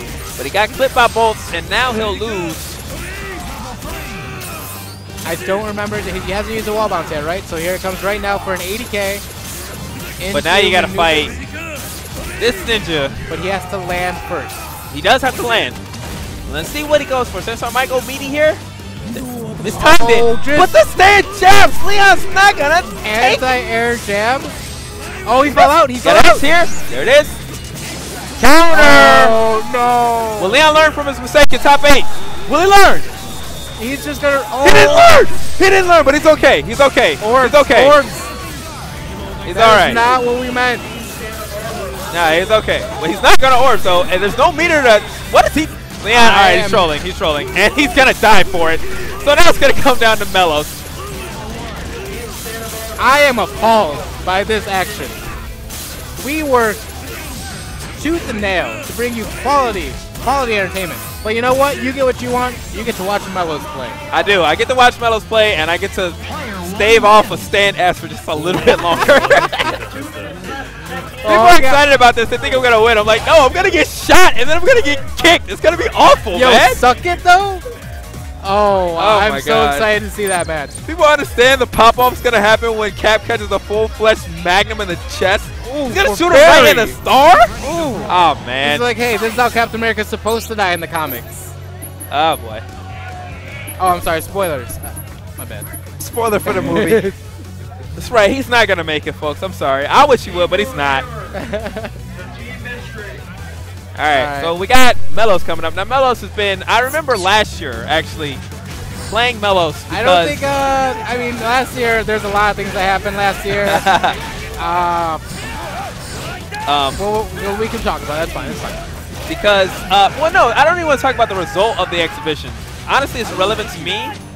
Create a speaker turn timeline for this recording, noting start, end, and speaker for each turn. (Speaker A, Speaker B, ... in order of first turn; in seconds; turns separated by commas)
Speaker A: 0.4-2.8, Speaker B: 5.2-9.2, Speaker B: 10.2-11.4, Speaker A: 10.3-11.3, Speaker A: 12.4-13.2, Speaker B: 13.3-14.7, Speaker A: 14.9-15.8, Speaker A: 16.5-18.6, Speaker A: 19.1-23.4, Speaker B: 19.7-20.7, Speaker B: 23.0-24.6, Speaker B: 25.3-26.5, Speaker A: 25.5-27.4, Speaker A: 28.4-29.4, Speaker B: 28.7-30.6, Speaker A: 30.4-33.1, Speaker B: 33.8-35.2, Speaker A: 34.6-38.0, Speaker B: 37.2-38.3, Speaker A: 39.5-40.0, Speaker B: 39.5-40.9, Speaker A: 42.1-50.8, Speaker B: 46.1-46.9, Speaker B: 53.0-55.2, Speaker B: 56.2-56.8, Speaker B: 58.0-64.0, Speaker A: 64.1-69.8, Speaker B: 71.2-71.8, Speaker A: 71.2-76.8, Speaker B: 76.3-77.6, Speaker B: 78.4-80.8, Speaker A: 79.0-79.9, Speaker A: 80.9-87.5, Speaker B: 85.6-87.0, Speaker B: 87.6-91.5, Speaker A: 88.1-88.9, Speaker A: 92.1-92.6, Speaker B: 93.8-95.7, Speaker A: 96.0-97.0, Speaker B: 96.5-97.2, Speaker A: 98.0-101.1, Speaker B: 101.3-102.0, Speaker A: 104.0-108.4, Speaker B: 104.1-104.5, Speaker A: 109.0-110.4, Speaker B: 109.9-113.9, Speaker A: 113.5-114.2, Speaker B: 114.6-115.2, Speaker A: 116.7-117.0, Speaker B: 116.9-118.8, Speaker A: 119.3-124.2